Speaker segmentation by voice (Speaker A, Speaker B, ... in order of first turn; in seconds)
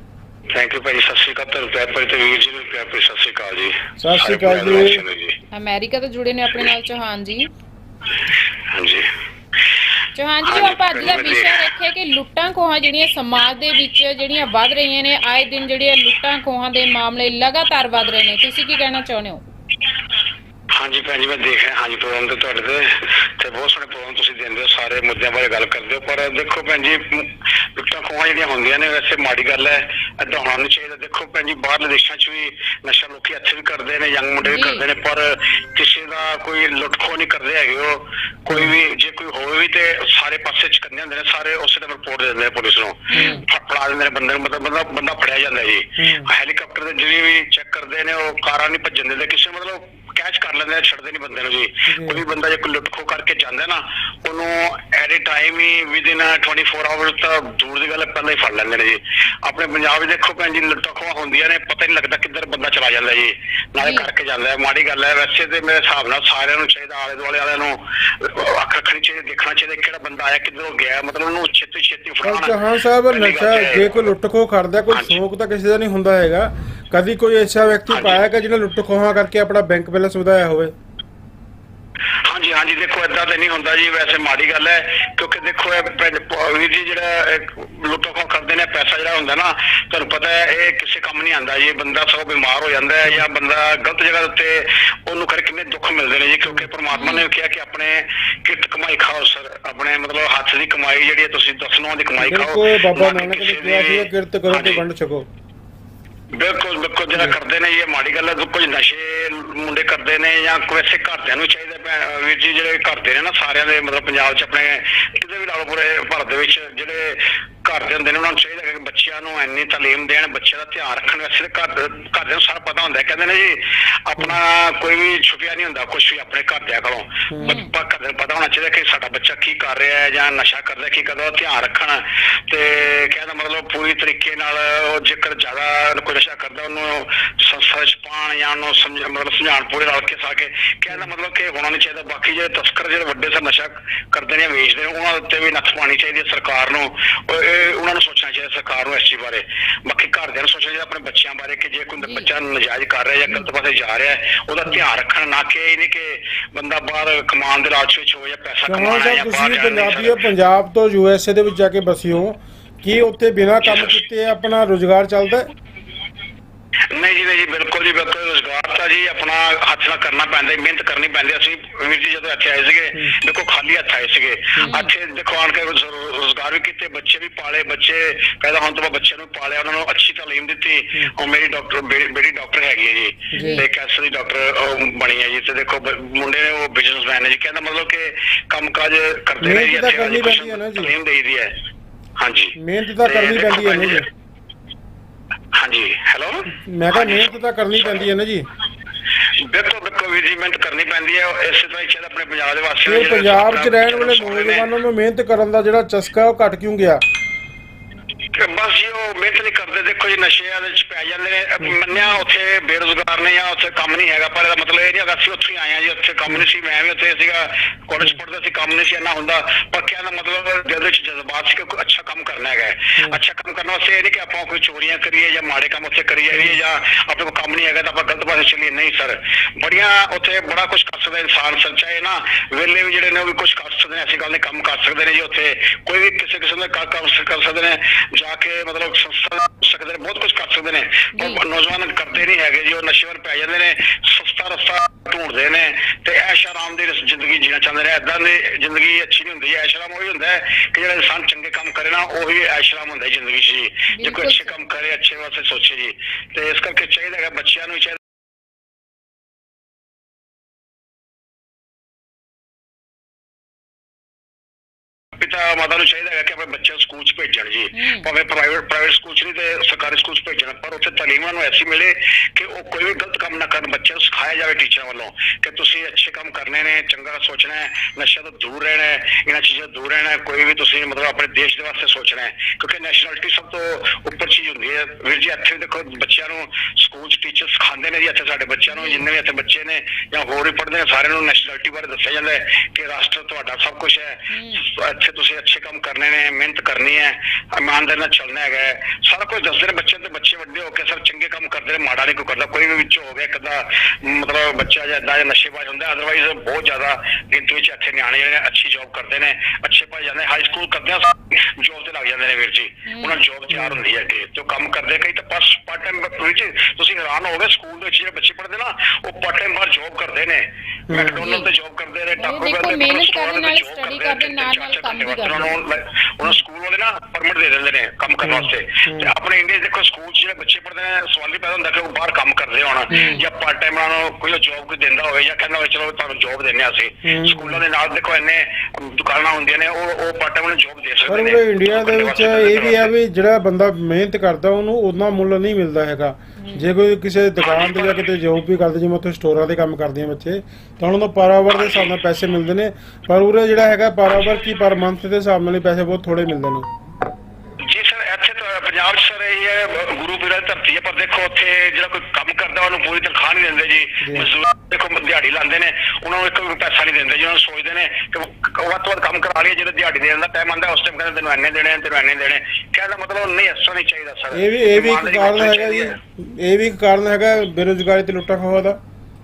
Speaker A: 0.5-5.4, 8.2-9.1, 10.5-11.7, 20.7-72.6, 73.1-74.0, 74.9-75.2, 77.9-78.2, 82.2-104.8, 106.3-160.2, 163.6-164.0, 166.9-191.5, 192.2-194.1, 195.5-198.1, 199.2-204.7, 208.3-258.0, 265.1-342.9, 347.4-348.1, 351.5-351.9, 357.6-376.0
Speaker B: 4.0-5.1, 38.5-38.8, 43.2-43.5, 46.0-46.3, 51.9-52.2, 72.2-80.7, 102.2-105.3, 127.3-127.6, 158.7-165.5, 183.3-183.7, 189.4-190.9, 192.6-194.1, 196.6-198.5, 202.9-207.0, 226.3-226.6, 313.5-313.8, 320.9-321.2, 328.2-329.1, 332.9-333.2, 337.1-337.6, 341.1-356.7, 364.0-364.3, 374.3-378.8
Speaker C: 5.5-7.5, 10.2-19.4, 34.4-34.9, 43.1-43.5, 63.8-64.1, 96.9-97.3, 127.4-127.7, 152.0-152.3, 174.6-174.9, 183.3-183.6, 241.2-241.4, 253.9-254.6, 267.7-268.1, 288.7-289.0, 294.3-294.7, 312.9-313.2, 321.0-321.5, 322.2-325.6, 332.9-333.2, 346.4-346.7